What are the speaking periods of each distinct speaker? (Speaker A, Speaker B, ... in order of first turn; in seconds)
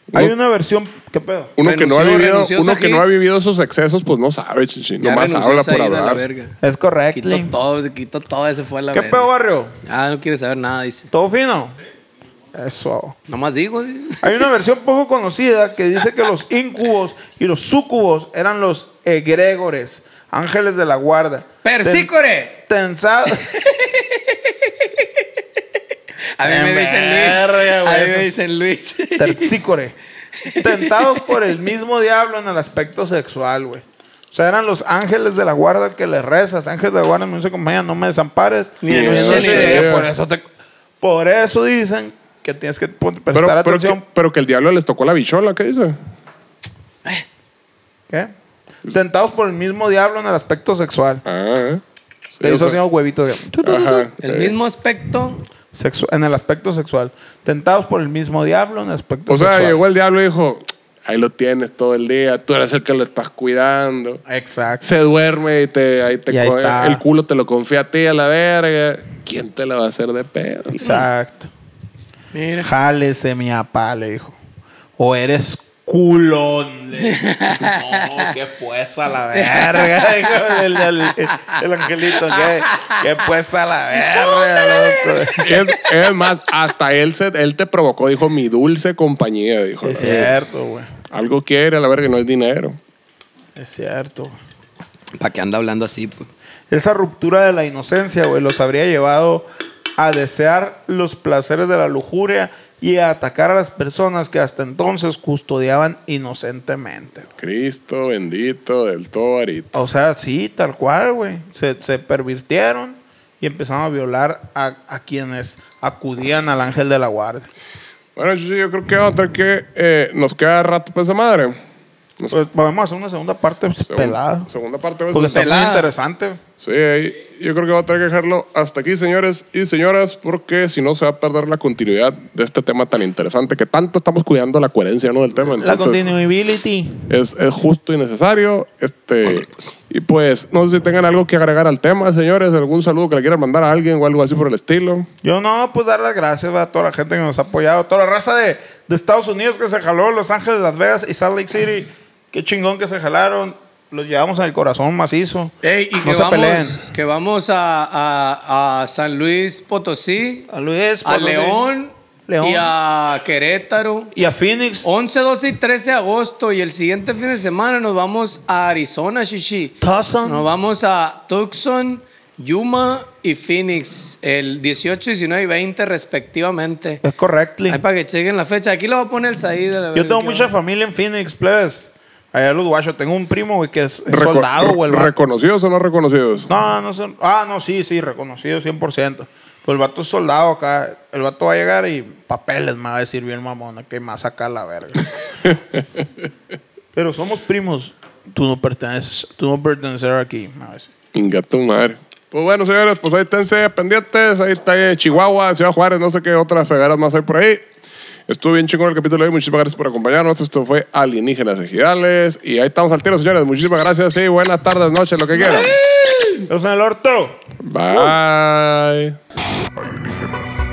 Speaker A: 0.1-1.5, 6.6-7.5, 8.9-9.7, 11.1-11.8, 12.5-13.2, 14.2-23.5, 26.4-28.3, 29.2-30.0, 30.6-40.5, 41.0-44.0, 48.9-51.2, 52.4-54.1, 55.7-59.8, 64.3-64.8, 66.3-67.0, 70.7-71.5, 72.6-74.4, 75.0-85.6, 89.8-90.9, 93.6-94.4, 96.7-99.5, 100.0-107.3, 109.7-117.5, 122.3-124.5, 125.1-126.4, 135.4-137.1, 145.2-156.8, 160.5-161.7, 162.3-162.7, 164.1-164.9, 169.8-170.5, 177.0-177.8, 179.9-185.1, 186.5-195.1, 196.9-200.9, 215.4-217.4
Speaker B: 1.6-6.2, 38.9-40.1, 43.3-46.0, 51.3-51.8, 52.4-52.8, 53.6-54.5, 59.3-64.2, 64.8-71.0, 85.4-90.2, 91.1-92.8, 107.4-109.7, 118.2-121.6, 123.9-125.6, 126.6-136.1, 137.1-145.1, 184.1-186.5, 195.5-195.8, 201.2-207.6, 208.3-215.8, 217.6-219.2, 219.8-220.5
Speaker C: 1.6-3.0, 5.0-6.6, 7.1-9.3, 9.8-11.1, 13.3-14.4, 21.6-22.6, 23.3-25.3, 26.4-29.6, 30.4-31.4, 38.8-39.9, 54.2-55.4, 72.3-72.7, 77.0-78.3, 79.3-81.6, 82.1-83.0, 83.9-85.5, 90.0-90.3, 95.2-96.3, 125.3-125.9, 155.6-160.5, 161.1-164.1, 164.8-177.0, 177.7-180.5